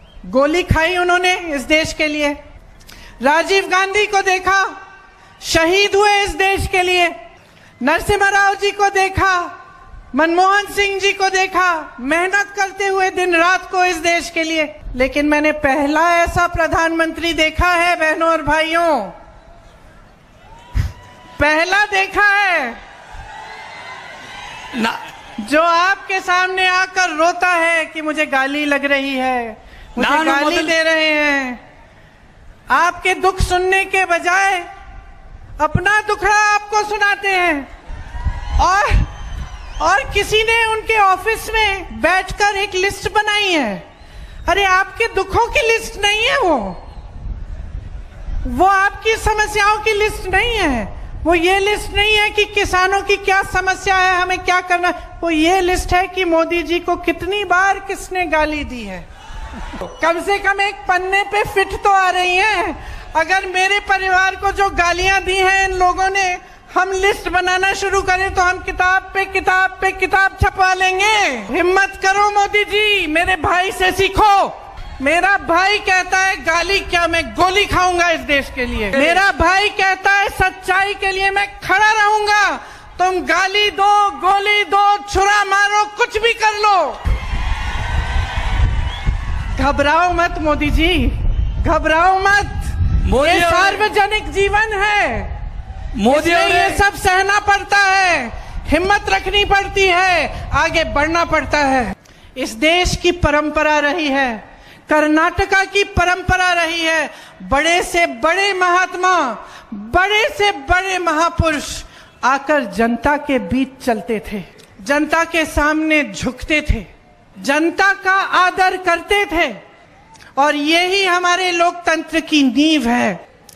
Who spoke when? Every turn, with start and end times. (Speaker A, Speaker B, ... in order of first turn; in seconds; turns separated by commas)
Speaker A: 0.3-2.4, Speaker A: 3.2-4.7, Speaker A: 5.4-7.1, Speaker A: 7.8-9.5, Speaker A: 10.1-19.1, Speaker A: 21.4-22.8, Speaker B: 24.7-25.0, Speaker A: 25.4-31.6, Speaker B: 30.0-30.7, Speaker A: 32.7-34.7, Speaker A: 35.6-37.7, Speaker A: 38.6-39.1, Speaker A: 39.8-43.8, Speaker A: 44.5-46.8, Speaker A: 48.4-59.1, Speaker A: 59.8-87.0, Speaker A: 89.5-95.3, Speaker B: 93.0-93.8, Speaker B: 95.9-96.8, Speaker A: 96.1-119.6, Speaker A: 120.4-123.2